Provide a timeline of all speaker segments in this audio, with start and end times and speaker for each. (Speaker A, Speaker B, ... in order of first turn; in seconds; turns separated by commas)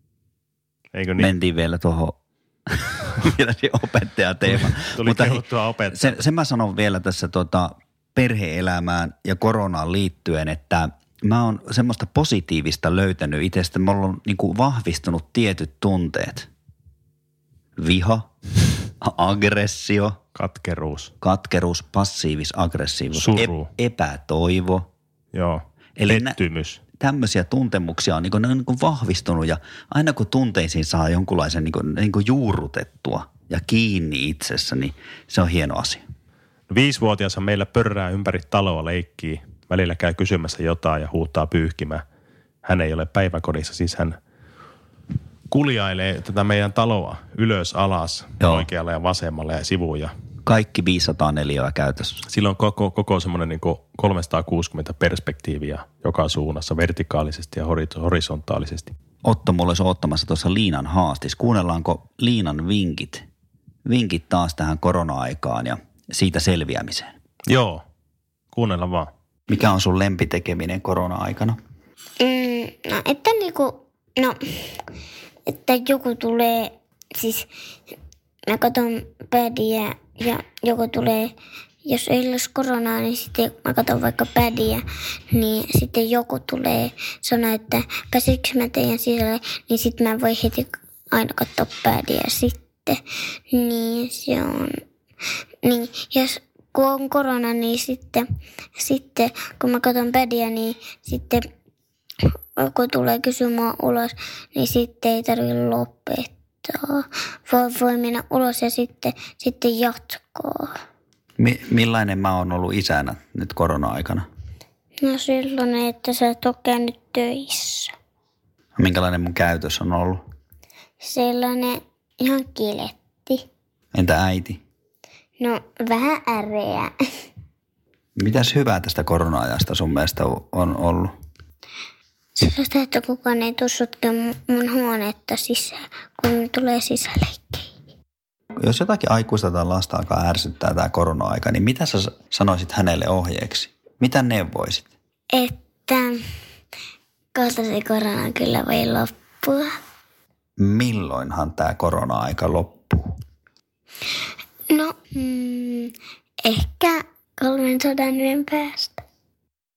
Speaker A: 0.9-1.3, Speaker B: 1.2-16.5, Speaker A: 4.5-6.2, Speaker B: 17.8-18.3, Speaker B: 18.9-20.2, Speaker A: 20.3-21.1, Speaker B: 21.2-24.9, Speaker A: 23.1-23.7, Speaker A: 25.3-26.8, Speaker B: 26.0-26.4, Speaker B: 27.0-36.0, Speaker A: 36.7-42.0, Speaker A: 42.6-44.2, Speaker A: 45.5-50.1, Speaker B: 48.4-48.7, Speaker B: 50.5-52.2, Speaker A: 52.2-58.9, Speaker B: 59.2-63.3, Speaker B: 63.9-67.1, Speaker A: 67.5-67.8, Speaker A: 68.5-69.1, Speaker B: 69.5-71.6, Speaker C: 72.2-74.7, Speaker C: 75.5-77.5, Speaker C: 78.5-81.3, Speaker C: 81.8-94.8, Speaker C: 95.6-101.5, Speaker C: 102.2-110.7, Speaker B: 111.4-114.3, Speaker C: 115.0-117.9, Speaker B: 118.8-120.2, Speaker C: 121.0-123.5, Speaker B: 123.9-124.6, Speaker C: 125.4-127.0, Speaker B: 128.2-131.1, Speaker C: 132.4-137.7, Speaker B: 138.6-144.9, Speaker C: 145.3-146.2, Speaker C: 147.3-149.8, Speaker B: 150.6-153.2, Speaker C: 154.7-159.0